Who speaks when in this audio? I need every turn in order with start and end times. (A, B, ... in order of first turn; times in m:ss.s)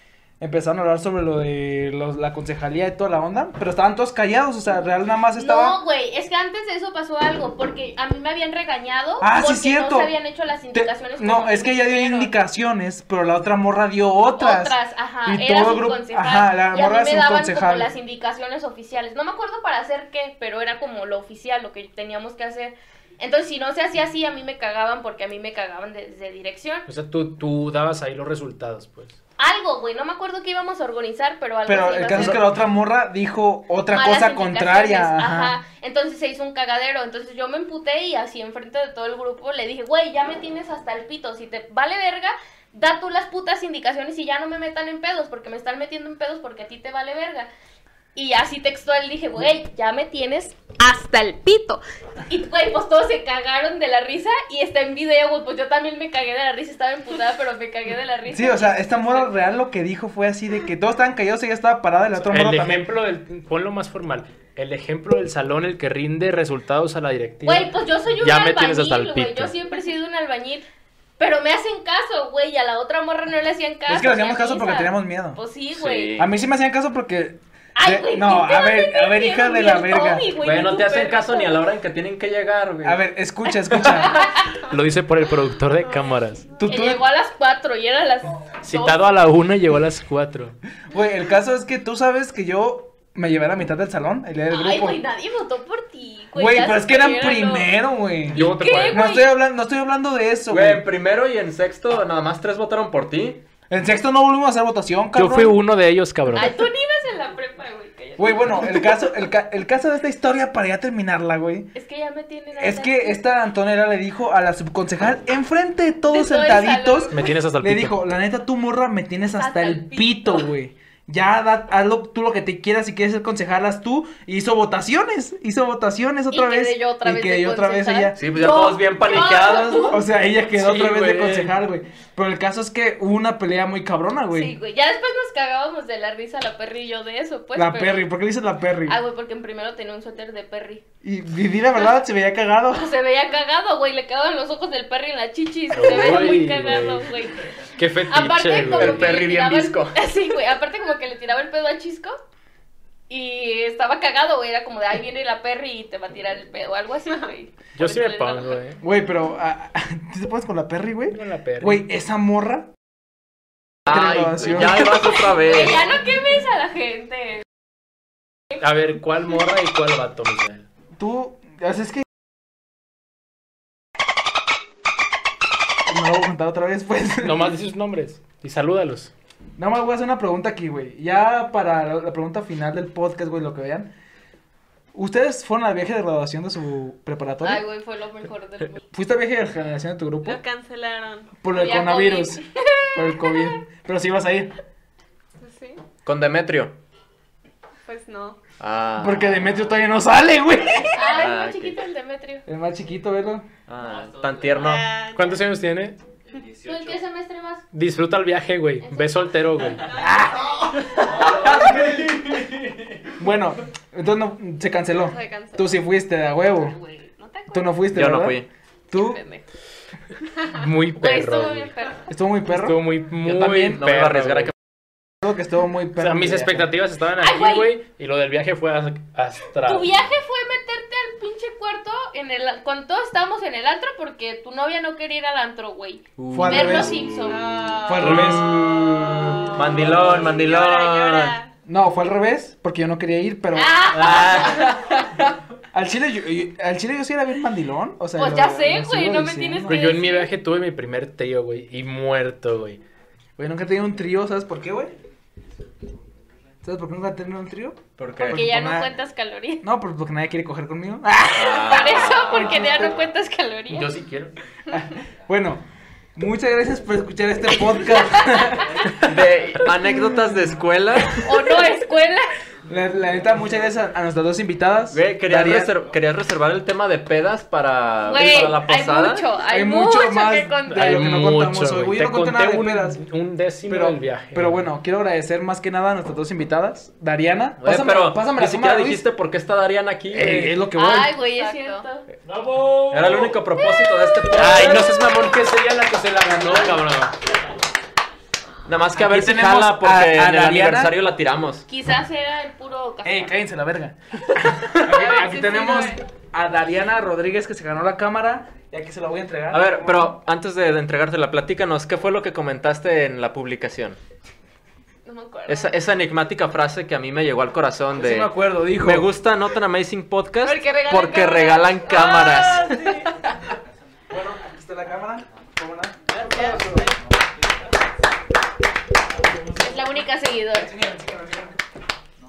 0:00.4-0:05.8 A
0:05.4-0:12.3 B
0:09.2-0:10.1 A
0:10.7-0:17.9 A
0:14.4-0:26.9 B
0:26.8-0:29.2 C
0:29.4-0:32.4 B
0:31.6-0:35.6 A
0:32.1-0:32.4 C
0:33.9-0:47.5 B
0:48.1-0:59.4 B
0:58.3-1:02.8 A
1:02.2-1:09.5 C
1:07.4-1:10.6 B
1:11.2-1:16.2 B
1:13.9-1:15.4 A
1:15.7-1:16.3 D
1:16.2-1:20.3 A
1:17.8-1:21.6 B
1:20.4-1:23.0 D
1:22.8-1:24.3 A
1:23.6-1:24.7 B
1:24.6-1:26.5 C
1:26.6-1:27.0 A
1:26.6-1:29.1 B
1:28.6-1:30.6 C
1:30.9-1:35.0 A
1:34.5-1:37.7 B
1:36.3-1:40.8 A
1:38.3-1:39.2 C
1:38.3-1:39.3 B
1:40.5-1:43.4 D
1:43.7-1:45.6 A
1:45.2-1:46.7 C
1:46.3-1:49.0 B
1:48.2-1:51.7 A
1:51.7-1:53.2 B
1:52.6-2:08.2 A
1:56.1-1:57.3 B
1:57.1-1:58.0 C
1:59.4-2:00.4 B
2:06.3-2:10.0 B
2:08.2-2:10.0 D
2:09.6-2:14.5 A
2:10.5-2:11.6 C
2:14.3-2:18.1 B
2:17.5-2:19.0 A
2:18.9-2:20.8 B
2:21.0-2:22.9 A
2:22.7-2:27.4 B
2:25.7-2:27.1 C
2:27.8-2:29.2 C
2:28.1-2:32.2 B
2:28.6-2:30.0 D
2:33.1-2:38.6 B
2:37.7-2:38.8 C
2:38.8-2:42.7 A
2:41.1-2:41.8 C
2:43.8-2:45.9 D
2:43.9-2:45.2 A
2:44.7-2:47.4 B
2:48.5-2:50.6 C
2:51.0-2:52.0 A
2:55.9-2:57.5 A
2:57.2-2:59.1 C
2:59.6-3:03.9 A
3:04.9-3:07.6 A
3:07.4-3:08.8 B
3:08.9-3:10.4 A
3:10.2-3:11.3 E
3:11.4-3:12.4 A
3:11.5-3:13.5 B
3:12.9-3:14.6 A
3:15.4-3:15.8 E
3:16.0-3:16.8 D
3:17.8-3:18.4 E
3:18.6-3:19.7 D
3:19.0-3:21.1 A
3:20.9-3:22.4 B
3:21.1-3:21.8 D
3:22.4-3:23.5 A
3:23.7-3:24.9 D
3:24.6-3:25.4 E
3:25.1-3:26.0 C
3:26.6-3:27.7 B
3:27.7-3:29.9 C
3:28.8-3:29.3 B
3:29.9-3:30.3 E
3:29.9-3:32.0 A
3:31.2-3:32.5 C
3:33.2-3:36.8 A
3:34.9-3:35.8 E
3:36.6-3:37.8 B
3:37.5-3:39.2 A
3:37.9-3:38.5 D
3:38.9-3:39.4 B
3:40.5-3:41.7 C
3:41.0-3:42.0 B
3:42.1-3:42.9 A
3:42.5-3:44.5 C
3:43.2-3:44.5 D
3:43.4-3:43.8 A
3:45.2-3:46.7 A
3:46.0-3:50.0 C
3:47.2-3:47.7 B
3:49.6-3:57.4 B
3:56.2-3:57.4 D
3:56.3-3:57.0 A
3:57.2-4:01.5 E
3:57.8-3:58.6 A
3:58.0-4:01.4 D
4:01.6-4:03.9 A
4:03.5-4:05.0 B
4:03.9-4:04.9 D
4:04.0-4:04.3 C
4:05.7-4:09.8 A
4:08.2-4:10.3 B
4:09.6-4:12.8 C
4:13.4-4:14.9 A
4:16.6-4:18.9 A
4:18.0-4:18.4 D
4:18.2-4:19.6 B
4:19.6-4:22.9 A
4:21.3-4:22.6 D
4:21.4-4:23.9 B
4:23.7-4:24.3 C
4:24.7-4:25.6 A
4:26.2-4:28.9 A
4:28.2-4:28.5 B
4:29.0-4:31.5 D
4:31.2-4:32.3 B
4:32.7-4:35.8 A
4:34.9-4:39.2 D
4:38.0-4:41.1 B
4:39.5-4:43.0 A
4:40.7-4:44.7 C
4:43.7-4:49.0 A
4:47.6-4:50.5 D
4:50.1-4:51.2 A
4:50.3-4:50.6 C
4:50.7-4:52.1 B
4:51.2-4:51.8 E
4:52.2-4:53.4 C
4:52.9-4:55.0 D
4:53.6-4:54.3 B
4:54.3-4:57.2 C
4:58.6-5:01.6 D
4:59.0-5:01.0 A
5:01.7-5:03.4 B
5:03.0-5:10.1 A
5:04.8-5:06.0 E
5:09.5-5:14.0 D
5:15.1-5:15.7 B
5:15.4-5:22.8 D
5:18.0-5:19.1 A
5:20.4-5:23.2 E
5:24.1-5:26.9 A
5:26.1-5:27.0 E
5:29.6-5:30.7 B
5:30.5-5:31.6 A